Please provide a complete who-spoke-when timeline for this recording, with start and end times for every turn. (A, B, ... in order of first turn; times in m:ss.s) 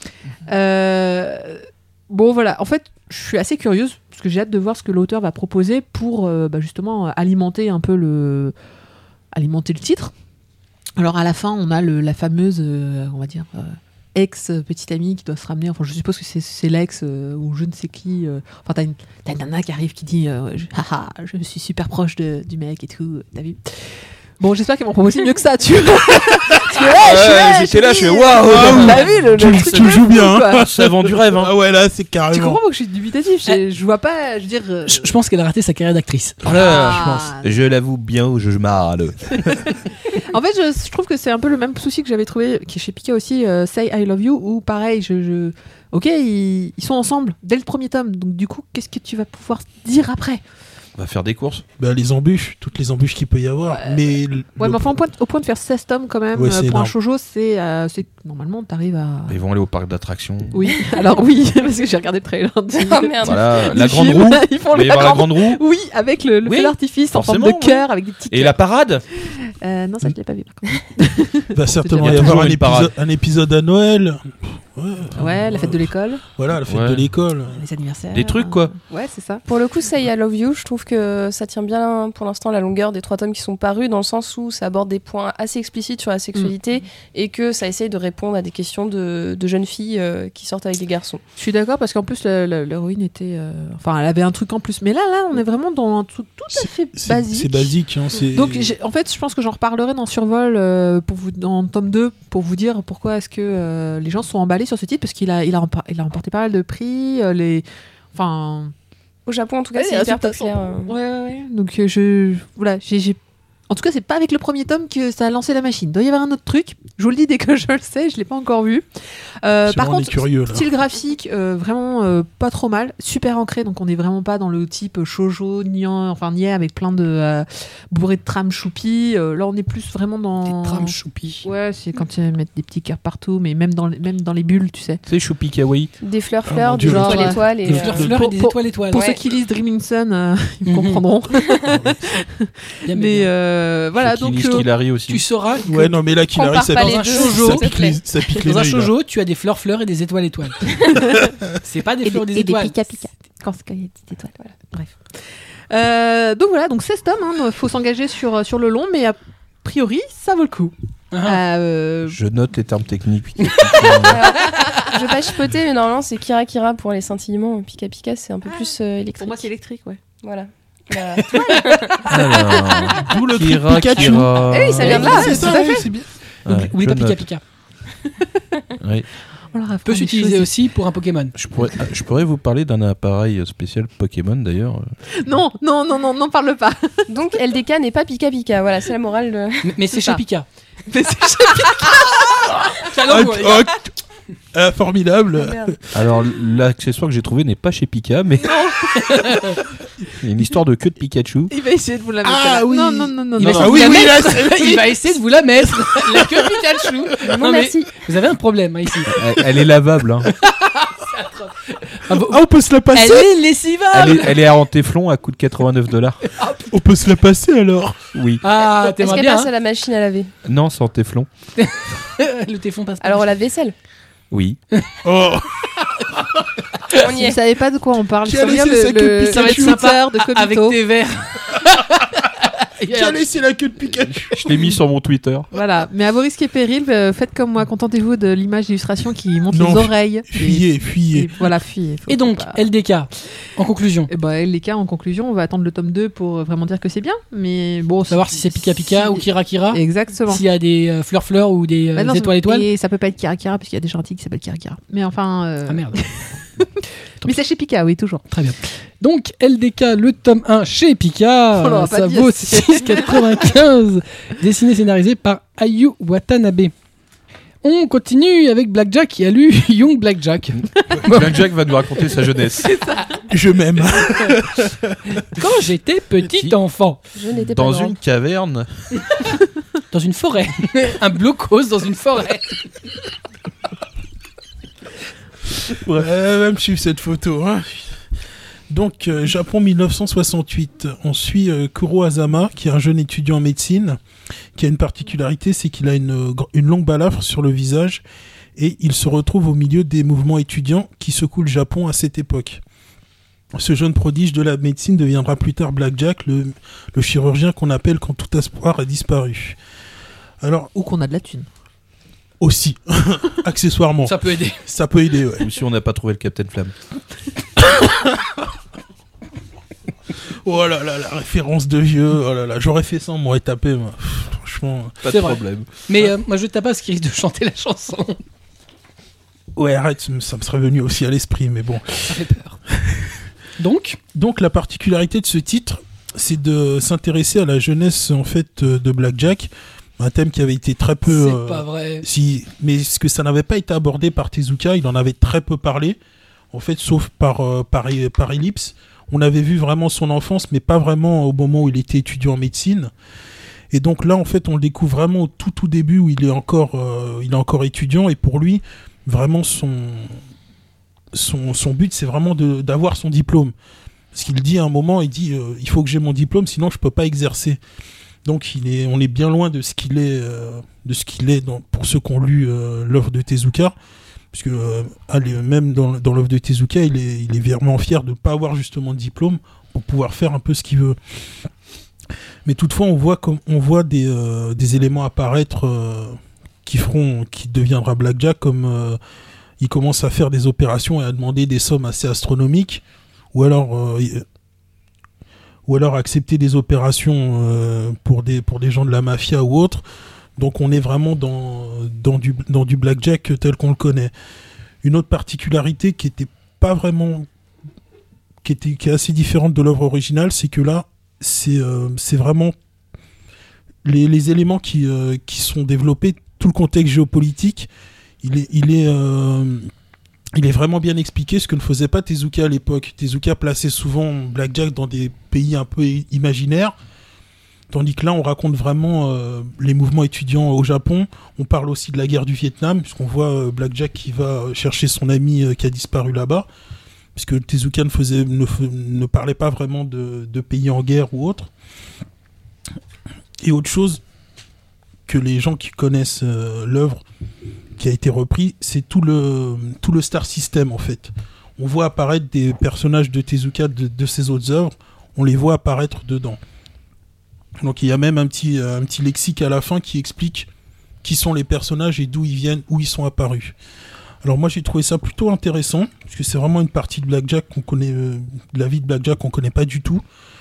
0:00.4-0:08.5 A
0:09.3-0:10.1 A
0:11.0-0:30.7 A
0:26.9-0:31.5 B
0:28.5-0:32.6 C
0:32.3-0:35.1 A
0:34.9-0:36.4 D
0:36.4-0:39.8 B
0:36.5-0:37.5 A
0:39.7-0:50.4 A
0:51.0-0:51.6 B
0:51.8-0:54.9 C
0:53.7-0:54.0 A
0:54.6-0:59.4 A
0:56.3-0:56.9 C
0:59.3-1:00.8 B
1:00.5-1:08.6 A
1:02.8-1:03.5 E
1:03.2-1:05.6 B
1:06.4-1:09.0 B
1:09.1-1:12.4 A
1:11.5-1:17.6 C
1:12.0-1:12.9 B
1:15.1-1:16.2 A
1:16.6-1:17.0 B
1:17.5-1:19.4 A
1:18.1-1:18.7 B
1:19.4-1:31.2 E
1:31.4-1:37.7 A
1:36.5-1:38.7 C
1:38.3-1:48.7 A
1:49.2-1:50.9 E
1:49.7-1:58.8 A
1:59.4-2:15.0 A
1:59.6-2:00.6 C
2:10.5-2:11.4 D
2:15.0-2:15.9 B
2:16.0-2:18.1 E
2:16.4-2:18.2 C
2:16.8-2:24.7 A
2:17.6-2:19.0 D
2:18.9-2:19.2 E
2:20.6-2:21.0 D
2:21.7-2:22.0 C
2:22.9-2:23.3 D
2:24.0-2:25.2 B
2:25.1-2:25.7 D
2:25.7-2:28.9 C
2:26.3-2:28.0 E
2:26.6-2:27.7 D
2:28.4-2:31.0 D
2:30.8-2:31.2 A
2:31.5-2:32.7 D
2:32.0-2:35.1 A
2:35.7-2:40.7 A
2:41.1-2:41.4 D
2:41.2-2:42.2 A
2:42.1-2:44.2 B
2:43.5-2:43.8 D
2:44.1-2:49.5 E
2:48.4-2:50.0 A
2:50.2-2:52.0 E
2:51.2-2:52.2 D
2:52.0-2:55.1 B
2:53.0-2:56.1 C
2:54.4-2:55.9 A
2:54.6-2:55.5 E
2:56.4-2:57.2 B
2:56.4-2:57.4 D
2:58.2-2:58.4 A
2:58.8-2:59.0 B
2:59.5-3:00.5 A
2:59.8-3:01.3 D
3:01.4-3:04.8 B
3:05.2-3:07.1 A
3:07.1-3:09.7 E
3:09.6-3:10.4 D
3:10.9-3:12.5 A
3:12.8-3:13.7 D
3:13.0-3:13.9 C
3:14.5-3:15.8 C
3:15.4-3:15.7 E
3:15.9-3:18.6 B
3:18.5-3:19.4 A
3:18.9-3:19.6 D
3:20.2-3:21.5 B
3:21.5-3:24.7 A
3:22.2-3:24.9 C
3:23.4-3:23.7 B
3:23.5-3:29.4 D
3:26.5-3:27.1 A
3:27.2-3:27.9 E
3:29.1-3:30.3 B
3:30.2-3:34.5 D
3:32.1-3:33.3 C
3:33.9-3:36.2 B
3:36.3-3:36.7 D
3:36.7-3:38.0 C
3:38.1-3:38.4 B
3:38.4-3:39.5 D
3:38.6-3:40.3 E
3:40.4-3:41.3 B
3:41.6-3:43.4 D
3:43.0-3:43.7 E
3:44.3-3:44.6 B
3:45.0-3:45.5 C
3:47.0-3:47.4 E
3:47.1-3:50.8 A
3:48.2-3:49.8 C
3:49.2-3:53.3 D
3:52.9-3:54.5 C
3:53.9-3:54.2 D
3:54.4-3:55.5 B
3:55.5-4:02.6 A
3:59.5-4:01.3 C
4:02.1-4:04.1 D
4:04.1-4:10.4 A
4:08.1-4:12.7 D
4:12.0-4:18.2 A
4:15.7-4:16.0 D
4:18.3-4:26.7 D
4:21.5-4:23.5 A
4:27.6-4:31.4 D
4:30.6-4:32.8 B
4:32.6-4:33.3 A
4:33.3-4:35.2 C
4:35.3-4:37.0 D
4:36.2-4:36.6 B
4:37.1-4:38.0 E
4:37.3-4:38.7 B
4:39.9-4:42.6 D
4:45.8-4:46.1 B
4:45.9-4:48.0 C
4:48.7-4:54.0 C
4:54.5-4:58.0 C
4:58.6-5:02.6 C
5:03.5-5:09.6 C
5:10.4-5:10.7 C
5:10.7-5:11.4 A
5:12.4-5:15.5 C
5:14.0-5:14.6 D
5:15.4-5:16.7 B
5:17.6-5:18.3 C
5:20.4-5:25.0 C
5:25.0-5:25.8 B
5:25.1-5:28.2 D
5:29.5-5:32.2 C
5:32.1-5:32.6 D
5:32.7-5:33.2 C
5:33.6-5:34.0 D
5:34.1-5:46.0 C
5:41.0-5:42.0 D
5:46.5-5:52.9 C
5:53.7-6:00.2 C
6:01.1-6:03.5 C
6:04.1-6:07.6 C
6:08.2-6:13.7 C
6:14.3-6:21.0 C
6:22.4-6:29.0 C
6:29.6-6:34.2 C
6:35.6-6:39.8 C
6:40.4-6:44.1 C
6:44.8-6:47.3 C
6:48.4-6:52.5 C
6:53.8-6:57.7 C
6:58.2-6:59.7 C
7:00.3-7:06.7 C
7:07.7-7:16.5 C
7:17.1-7:21.5 C
7:23.4-7:24.0 C
7:25.1-7:27.0 C
7:27.8-7:36.4 C
7:37.6-7:40.5 C
7:41.0-7:43.6 C
7:44.2-7:50.0 C